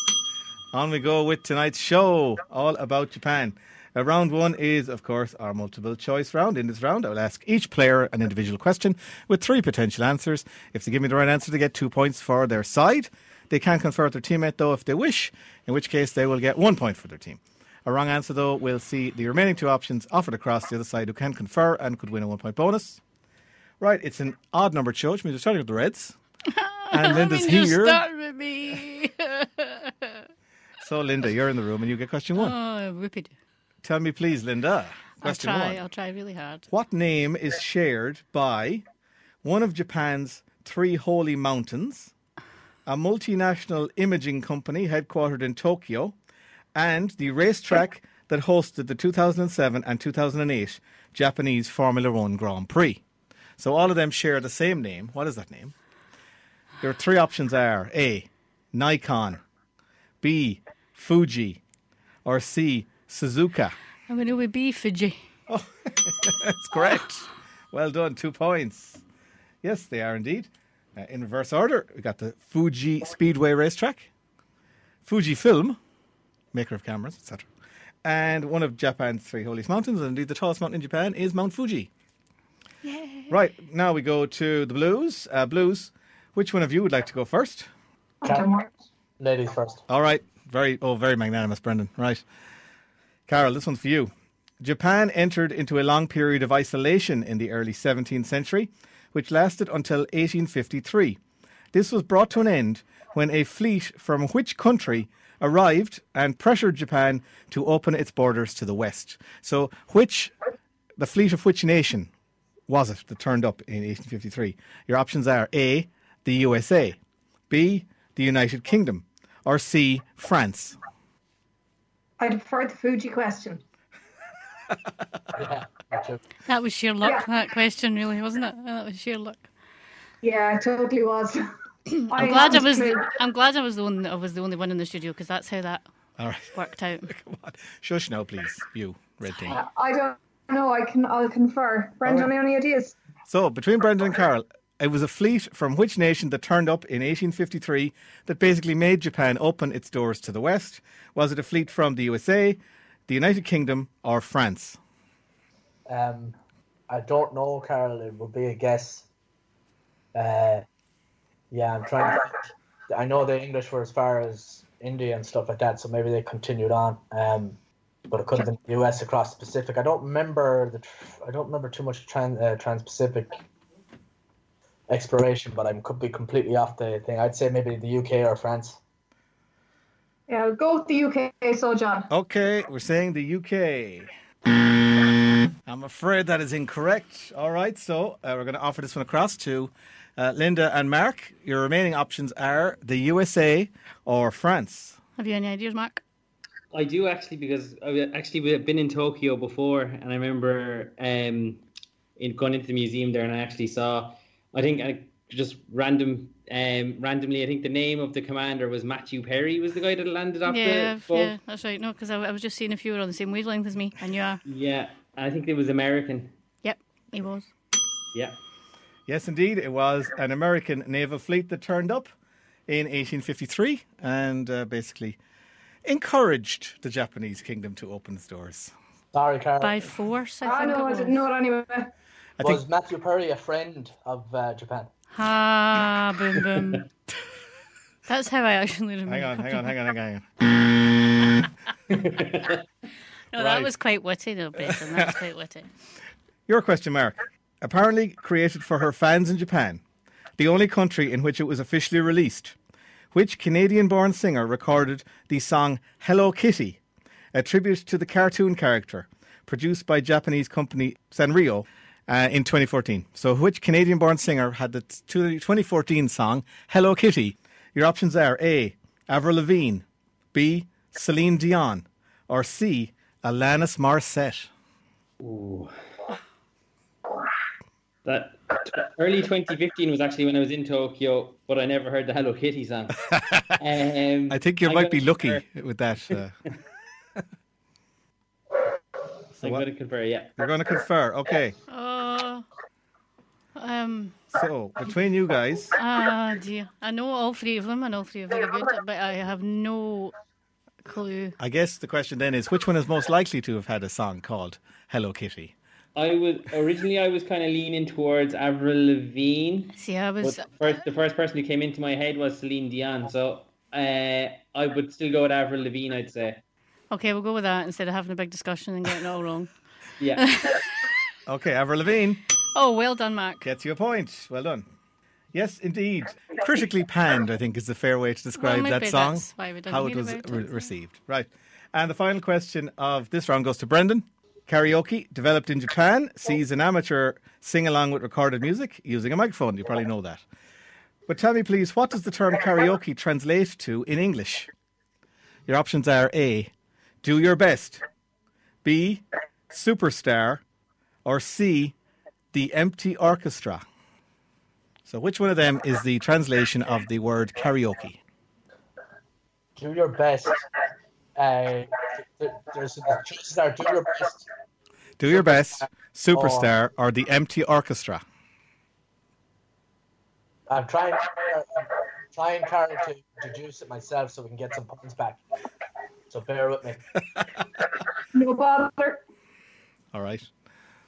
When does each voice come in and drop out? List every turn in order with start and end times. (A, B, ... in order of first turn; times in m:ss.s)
0:00.7-0:23.0 A
0:23.8-0:26.2 A
0:26.5-0:30.2 B
0:26.9-0:28.0 A
0:30.8-0:32.6 A
0:32.3-0:33.3 B
0:33.8-0:35.8 A
0:35.2-0:36.6 B
0:36.7-0:38.8 A
0:39.4-0:42.1 A
0:42.8-0:46.2 A
0:46.7-0:53.0 A
0:53.6-0:55.7 A
0:56.8-0:59.4 A
1:00.2-1:01.6 A
1:02.2-1:03.8 A
1:04.1-1:05.2 B
1:05.5-1:09.0 A
1:09.6-1:14.1 A
1:15.0-1:15.8 A
1:16.5-1:17.5 A
1:18.0-1:21.9 A
1:22.8-1:23.3 B
1:23.3-1:27.7 A
1:28.2-1:28.7 C
1:29.2-1:29.8 D
1:29.9-1:32.2 A
1:33.3-1:41.2 A
1:41.7-1:50.3 A
1:51.0-1:52.1 A
1:52.7-1:57.0 A
1:57.5-2:00.8 A
2:02.2-2:03.6 C
2:05.3-2:06.2 D
2:06.5-2:09.5 B
2:10.2-2:11.4 C
2:11.9-2:15.8 B
2:12.1-2:13.1 C
2:16.2-2:19.6 A
2:16.5-2:17.1 B
2:19.4-2:23.0 C
2:22.0-2:22.3 A
2:23.3-2:34.8 A
2:35.9-2:36.4 D
2:36.9-2:39.1 D
2:40.1-2:40.6 D
2:41.5-2:47.6 D
2:48.1-2:53.4 D
2:54.9-2:58.8 D
3:00.3-3:02.1 C
3:02.1-3:04.1 A
3:05.6-3:15.0 A
3:15.2-3:16.0 B
3:16.7-3:21.6 E
3:22.2-3:31.3 E
3:30.4-3:34.4 B
3:34.4-3:36.3 E
3:36.6-3:37.5 B
3:39.1-3:42.1 A
3:42.7-3:45.2 A
3:45.8-3:48.7 A
3:49.1-3:49.9 D
3:49.6-3:51.2 B
3:50.4-3:51.9 C
3:52.4-3:54.9 D
3:55.1-3:56.9 B
3:58.0-3:59.7 B
3:59.1-4:00.2 A
4:01.9-4:02.6 E
4:03.3-4:05.7 B
4:03.4-4:03.7 A
4:04.6-4:05.2 A
4:06.5-4:09.8 A
4:10.4-4:12.6 A
4:13.1-4:16.8 A
4:17.3-4:34.5 A
4:35.2-4:35.7 E
4:38.0-4:43.0 E
4:43.1-4:43.6 A
4:43.6-4:45.4 E
4:44.3-4:46.4 A
4:49.3-4:50.3 E
4:50.4-4:51.6 A
4:51.7-4:52.4 B
4:53.5-4:54.2 B
4:54.3-4:55.8 A
4:55.8-5:00.1 B
5:00.8-5:01.3 B
5:01.4-5:05.5 A
5:05.9-5:16.4 E
5:09.8-5:10.4 B
5:16.9-5:19.5 B
5:20.0-5:20.2 E
5:20.1-5:20.7 B
5:21.2-5:22.2 A
5:22.5-5:23.5 B
5:23.4-5:24.7 A
5:25.3-5:40.2 A
5:28.3-5:30.7 B
5:41.1-5:44.5 A
5:45.5-5:46.5 A
5:47.0-5:47.8 A
5:48.6-5:50.4 A
5:51.0-5:51.7 A
5:52.3-5:53.6 A
5:54.8-5:58.0 A
5:59.6-6:00.4 D
6:01.2-6:04.2 D
6:05.0-6:08.0 A
6:05.1-6:06.5 D
6:10.5-6:15.2 D
6:16.1-6:16.9 D
6:18.1-6:19.0 C
6:19.9-6:20.3 A